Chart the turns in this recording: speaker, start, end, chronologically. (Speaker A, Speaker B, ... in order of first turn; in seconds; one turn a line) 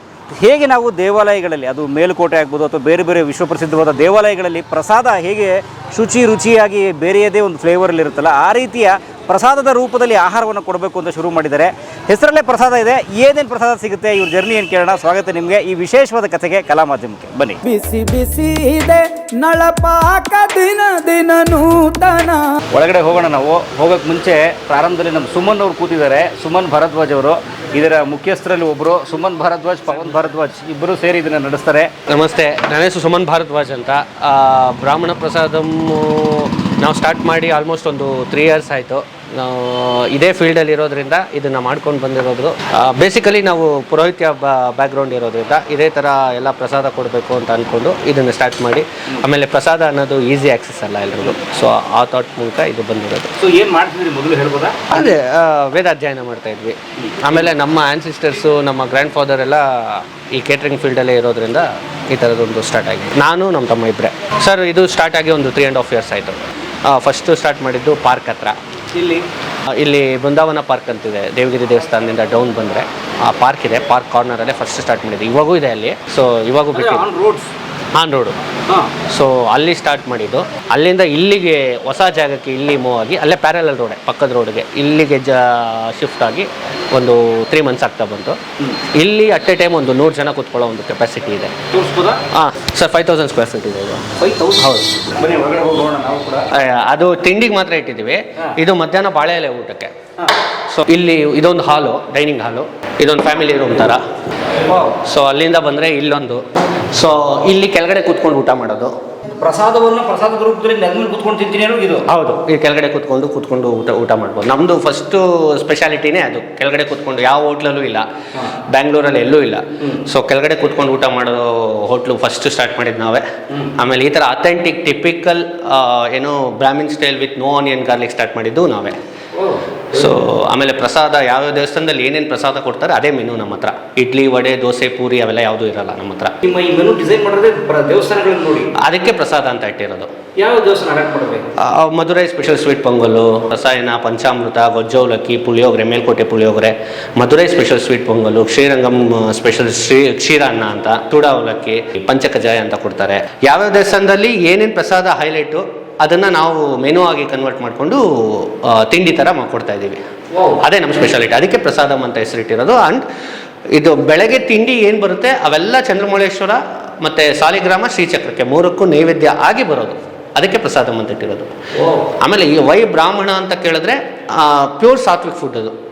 Speaker A: 0.4-17.6
Speaker B: 17.6-22.5
Speaker A: 22.7-31.9
Speaker C: 32.1-53.3
Speaker A: 53.4-54.9
Speaker C: 54.9-68.5
Speaker A: 57.0-57.5
Speaker A: 68.9-69.2
Speaker C: 69.8-77.0
Speaker A: 76.7-77.5
Speaker C: 78.0-78.3
Speaker C: 79.1-88.4
Speaker C: 88.9-91.5
Speaker A: 91.7-92.2
Speaker C: 92.3-94.0
Speaker A: 94.2-96.4
Speaker C: 94.5-94.9
Speaker C: 96.5-99.9
Speaker C: 100.7-104.0
Speaker A: 104.6-104.9
Speaker C: 105.0-108.9
Speaker A: 109.3-112.0
Speaker C: 112.1-118.0
Speaker C: 118.7-123.2
Speaker C: 123.8-129.0
Speaker A: 129.3-130.1
Speaker C: 129.9-136.3
Speaker A: 136.4-138.7
Speaker C: 138.8-140.1
Speaker A: 140.4-141.4
Speaker C: 141.6-160.0
Speaker A: 160.3-160.6
Speaker C: 160.6-163.0
Speaker C: 163.7-171.5
Speaker A: 171.8-172.0
Speaker C: 172.2-175.7